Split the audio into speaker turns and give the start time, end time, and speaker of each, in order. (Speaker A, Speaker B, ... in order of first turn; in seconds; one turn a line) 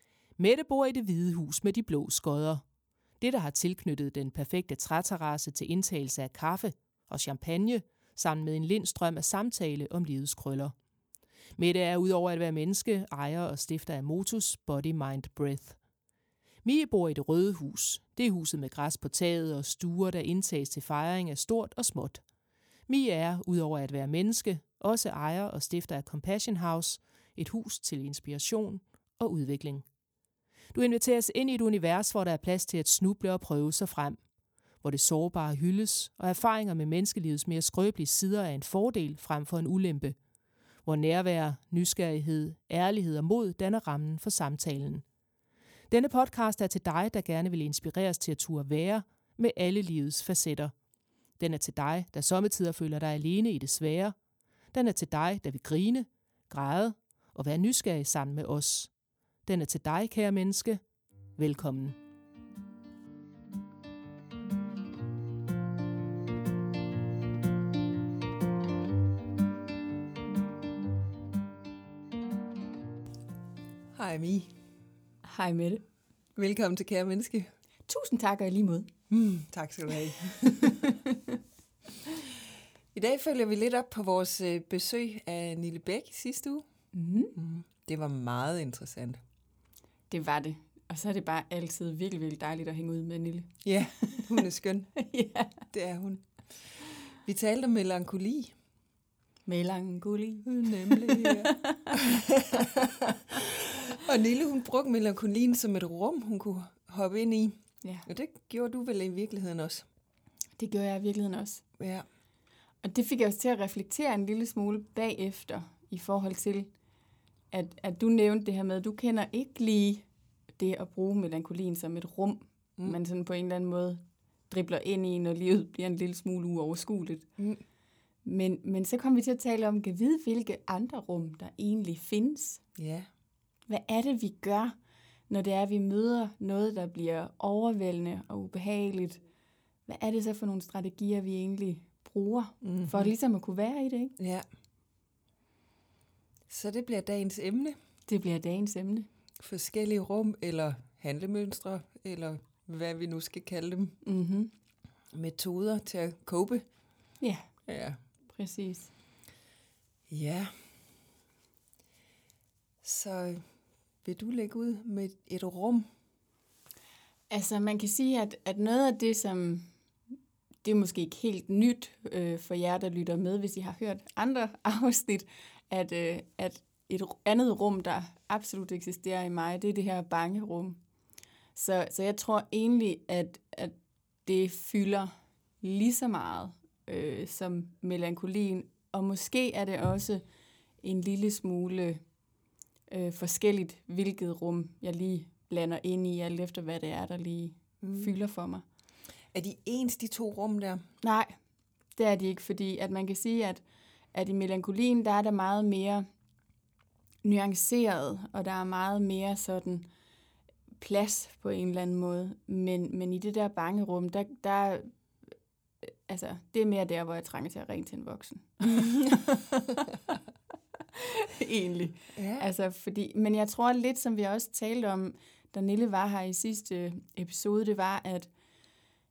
Speaker A: 0.4-2.6
Speaker A: 3.2-10.8
Speaker A: 11.6-15.8
Speaker A: 16.6-22.2
Speaker A: 22.9-29.9
Speaker A: 30.7-34.2
Speaker A: 34.8-40.2
Speaker A: 40.8-45.0
Speaker A: 45.9-50.7
Speaker A: 51.4-54.1
Speaker A: 54.7-58.9
Speaker A: 59.5-60.8
Speaker A: 61.4-62.0
Speaker B: 73.9-74.5
Speaker C: 75.2-75.8
Speaker B: 76.4-77.5
Speaker C: 77.9-78.9
Speaker B: 79.1-80.8
Speaker C: 80.6-81.4
Speaker B: 82.9-86.6
Speaker C: 86.9-87.4
Speaker B: 87.3-89.2
Speaker C: 90.1-93.6
Speaker B: 93.6-94.9
Speaker C: 95.0-95.6
Speaker B: 95.7-96.3
Speaker B: 97.2-98.5
Speaker C: 99.5-102.2
Speaker B: 100.5-109.9
Speaker C: 110.6-111.6
Speaker B: 111.8-112.0
Speaker C: 112.8-116.7
Speaker C: 117.5-120.0
Speaker C: 120.6-127.3
Speaker C: 128.2-132.6
Speaker B: 132.8-133.1
Speaker C: 133.7-134.8
Speaker C: 135.3-139.2
Speaker C: 139.9-144.2
Speaker B: 142.6-143.1
Speaker B: 144.2-144.4
Speaker B: 146.5-147.8
Speaker C: 148.1-149.1
Speaker B: 149.4-154.0
Speaker C: 154.0-154.5
Speaker B: 155.1-156.6
Speaker C: 157.2-157.5
Speaker B: 157.7-158.0
Speaker C: 158.3-158.9
Speaker B: 160.1-160.5
Speaker B: 162.8-163.5
Speaker B: 164.0-165.9
Speaker C: 167.3-169.7
Speaker C: 170.6-180.8
Speaker C: 181.6-190.2
Speaker C: 190.8-192.0
Speaker C: 192.9-198.6
Speaker B: 197.8-198.1
Speaker B: 199.3-200.8
Speaker C: 201.0-201.3
Speaker C: 202.0-203.6
Speaker C: 204.1-206.1
Speaker C: 207.2-209.9
Speaker C: 210.8-214.9
Speaker C: 215.8-219.9
Speaker C: 220.9-228.3
Speaker B: 222.2-222.5